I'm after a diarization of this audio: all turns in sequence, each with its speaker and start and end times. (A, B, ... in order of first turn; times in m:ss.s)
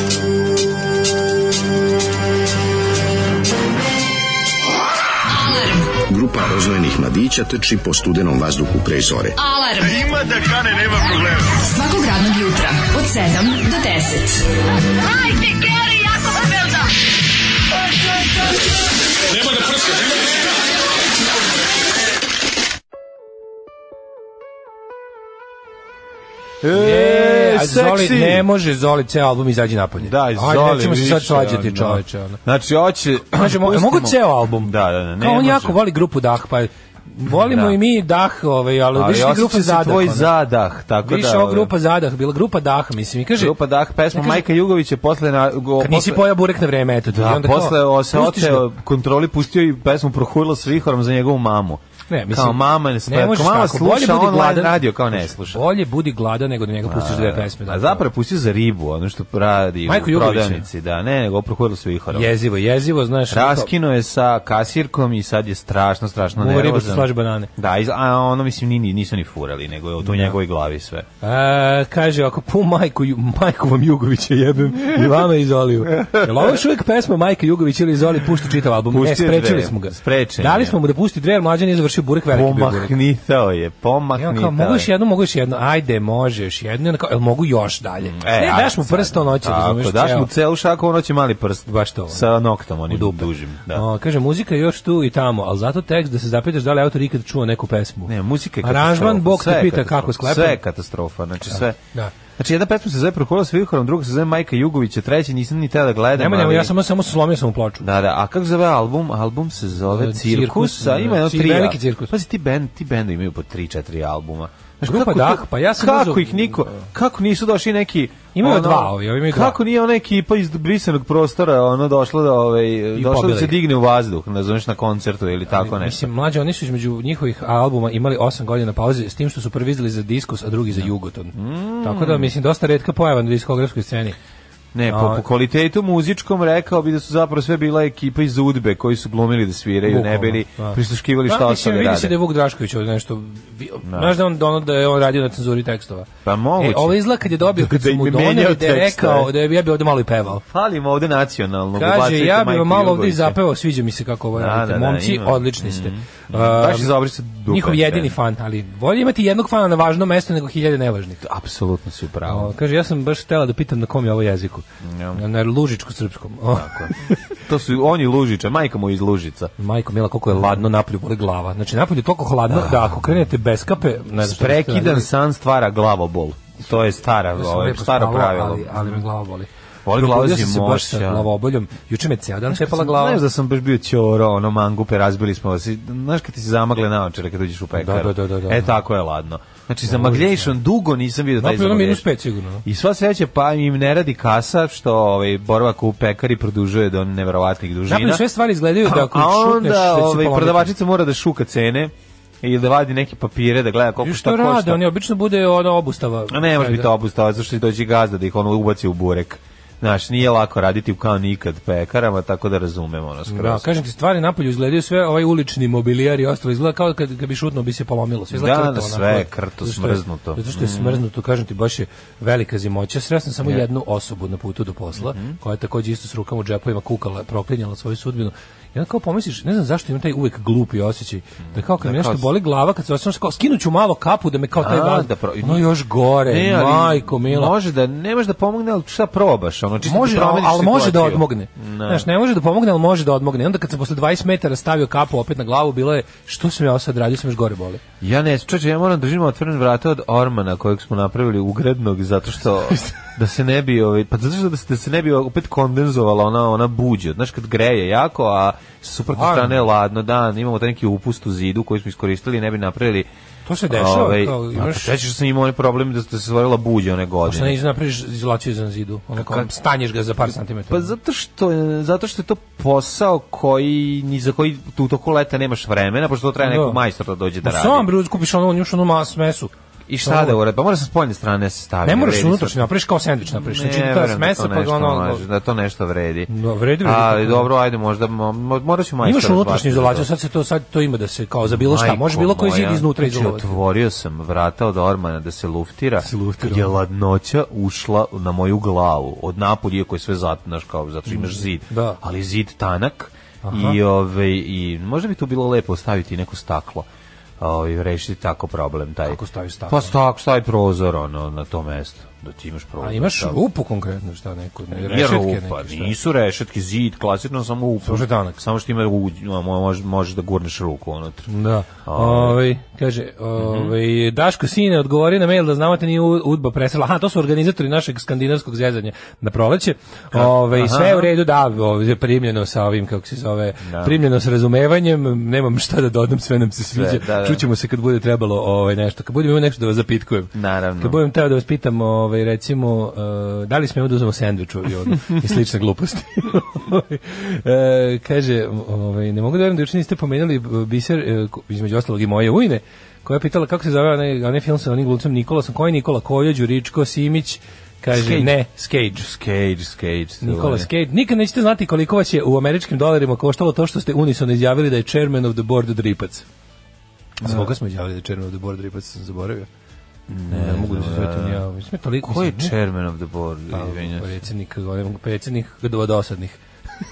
0:05.3-0:05.9 A
0:06.1-0:09.4 B
0:09.4-0:10.4 A
0:11.0-0:14.4 A
0:15.2-0:16.7 A
0:26.6-0:28.5 C
0:26.7-0:32.4 D
0:30.0-0:35.8 C
0:33.3-0:40.3 D
0:37.3-0:37.8 C
0:38.9-0:41.7 C
0:41.0-0:43.6 D
0:43.4-0:46.3 C
0:44.1-0:44.4 D
0:45.8-0:48.7 D
0:47.1-0:55.6 C
0:52.1-0:58.0 D
0:56.8-1:02.3 C
0:59.8-1:00.7 D
1:02.1-1:03.7 D
1:03.3-1:11.0 C
1:06.4-1:07.5 D
1:10.0-1:10.4 D
1:11.2-1:22.9 D
1:16.0-1:16.5 C
1:18.9-1:20.8 C
1:22.3-1:24.9 C
1:24.1-1:30.3 D
1:28.1-1:33.8 C
1:31.7-1:32.3 D
1:32.9-1:38.1 D
1:38.1-1:41.8 C
1:38.6-1:40.6 D
1:41.5-1:42.1 D
1:42.4-1:46.7 C
1:46.1-1:47.8 D
1:47.8-2:06.1 C
1:49.9-1:52.1 D
1:54.8-1:56.9 D
1:58.3-1:59.6 D
2:02.9-2:03.6 D
2:05.5-2:14.1 D
2:10.8-2:12.3 C
2:14.7-2:22.1 C
2:14.9-2:15.2 D
2:19.8-2:30.4 D
2:23.8-2:24.2 C
2:26.2-2:27.0 C
2:27.6-2:29.3 C
2:30.5-2:33.4 C
2:31.8-2:36.9 D
2:34.3-2:38.1 C
2:37.4-2:41.2 D
2:41.2-2:42.5 C
2:42.2-2:47.2 D
2:44.8-2:45.2 C
2:46.5-2:49.5 C
2:49.6-2:55.1 D
2:52.5-2:52.9 C
2:54.2-2:59.0 C
2:57.4-3:03.2 D
2:59.8-3:01.3 C
3:02.6-3:12.1 C
3:07.8-3:08.8 D
3:09.9-3:10.5 D
3:11.4-3:12.6 D
3:12.6-3:18.2 C
3:17.9-3:20.7 D
3:18.8-3:24.8 C
3:24.0-3:26.8 D
3:26.3-3:33.6 C
3:33.3-3:57.5 D
3:38.3-3:41.0 C
3:45.0-3:45.4 C
3:51.5-3:52.3 C
3:54.6-3:55.7 C
3:56.2-4:02.1 C
3:59.8-4:07.8 D
4:08.0-4:23.1 C
4:19.1-4:19.6 D
4:23.4-4:24.9 D
4:23.7-4:27.6 C
4:27.2-4:30.9 D
4:29.1-4:29.5 C
4:30.7-4:37.9 C
4:36.4-4:36.8 D
4:37.4-4:39.5 D
4:39.9-4:42.7 C
4:40.0-4:40.4 D
4:41.8-4:45.2 D
4:43.3-4:46.3 C
4:46.3-4:47.5 D
4:46.8-4:50.1 C
4:49.0-4:53.6 D
4:51.4-5:06.9 C
4:56.0-4:56.7 D
5:01.1-5:02.0 D
5:03.4-5:03.8 D
5:07.4-5:13.4 C
5:09.0-5:09.9 D
5:12.8-5:15.9 D
5:14.7-5:21.3 C
5:17.8-5:18.4 D
5:21.3-5:59.0 D
5:21.8-5:22.4 C
5:23.4-5:23.7 C
5:30.1-5:31.1 C
5:33.6-5:34.0 C
5:36.7-5:37.4 C
5:40.3-5:41.0 C
5:57.9-5:58.4 C
5:58.9-6:00.7 C
6:00.2-6:06.2 D
6:07.2-6:07.5 C
6:07.2-6:09.5 D
6:10.1-6:11.4 C
6:10.3-6:12.5 D
6:12.0-6:14.1 C
6:13.5-6:16.4 D